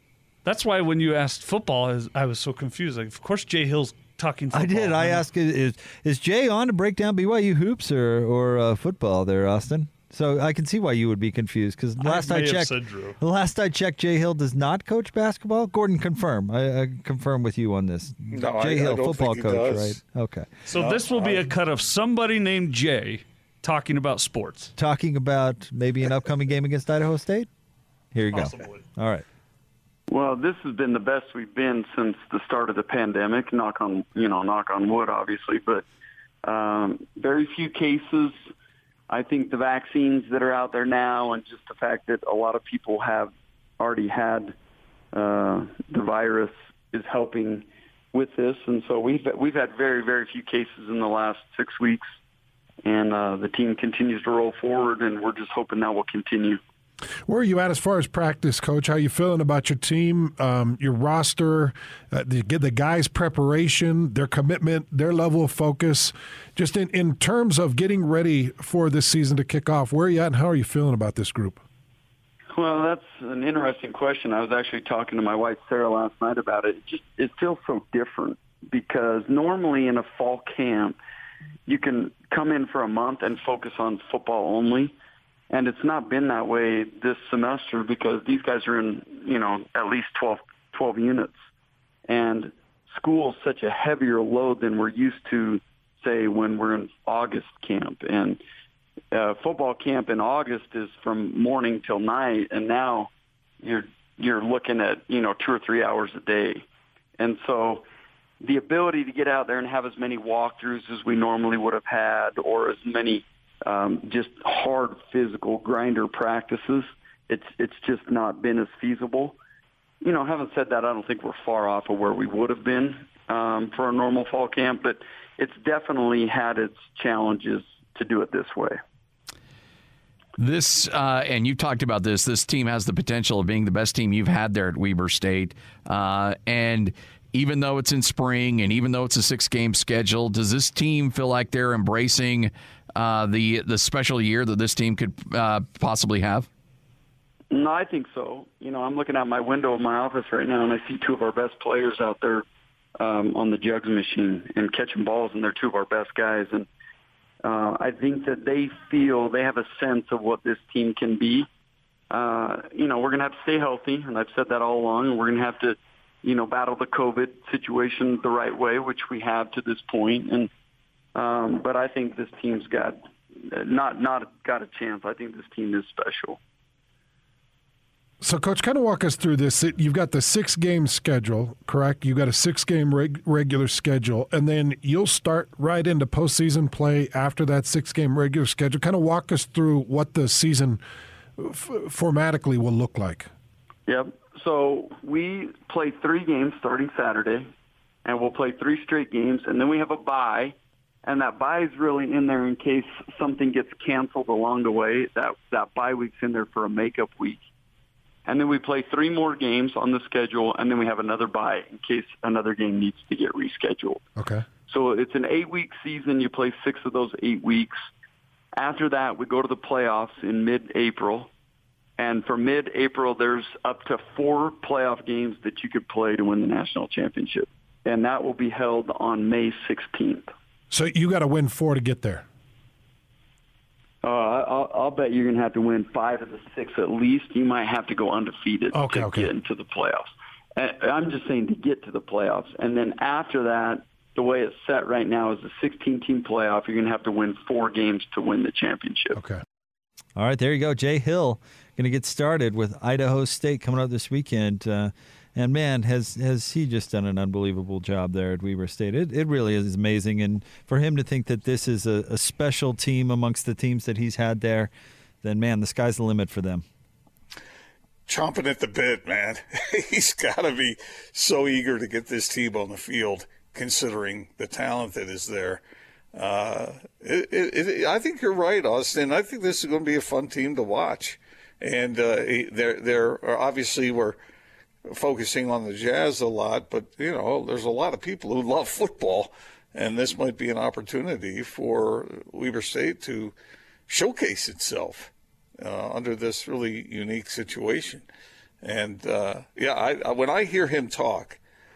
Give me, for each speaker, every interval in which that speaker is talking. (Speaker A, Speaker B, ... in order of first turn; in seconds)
Speaker A: 0.4-5.2, 12.0-13.2, 20.7-24.7, 28.3-28.8
Speaker B: 4.5-20.5, 24.8-27.5, 28.1-29.2, 250.2-266.6
Speaker C: 18.3-20.0, 20.7-21.5, 268.1-275.6, 276.1-284.2, 284.9-293.3, 293.9-298.1, 298.6-301.4
Speaker D: 30.1-35.8, 36.4-38.4, 39.1-44.5, 45.1-52.0, 52.8-56.6, 72.5-81.0, 81.7-84.9, 85.5-91.3, 92.1-98.4, 99.1-103.1, 103.6-106.6, 107.2-107.8, 108.4-119.4, 120.0-128.8, 147.5-152.4, 153.0-156.7, 157.4-161.5, 162.1-170.5, 171.1-176.4, 193.9-197.5, 198.0-207.4, 208.2-214.0, 214.7-217.8, 218.6-221.3, 222.0-230.3, 234.0-249.2
Speaker E: 57.3-71.6, 178.2-190.8, 191.4-193.3, 214.2-214.4, 230.7-232.2, 238.7-239.3
Speaker F: 130.4-146.5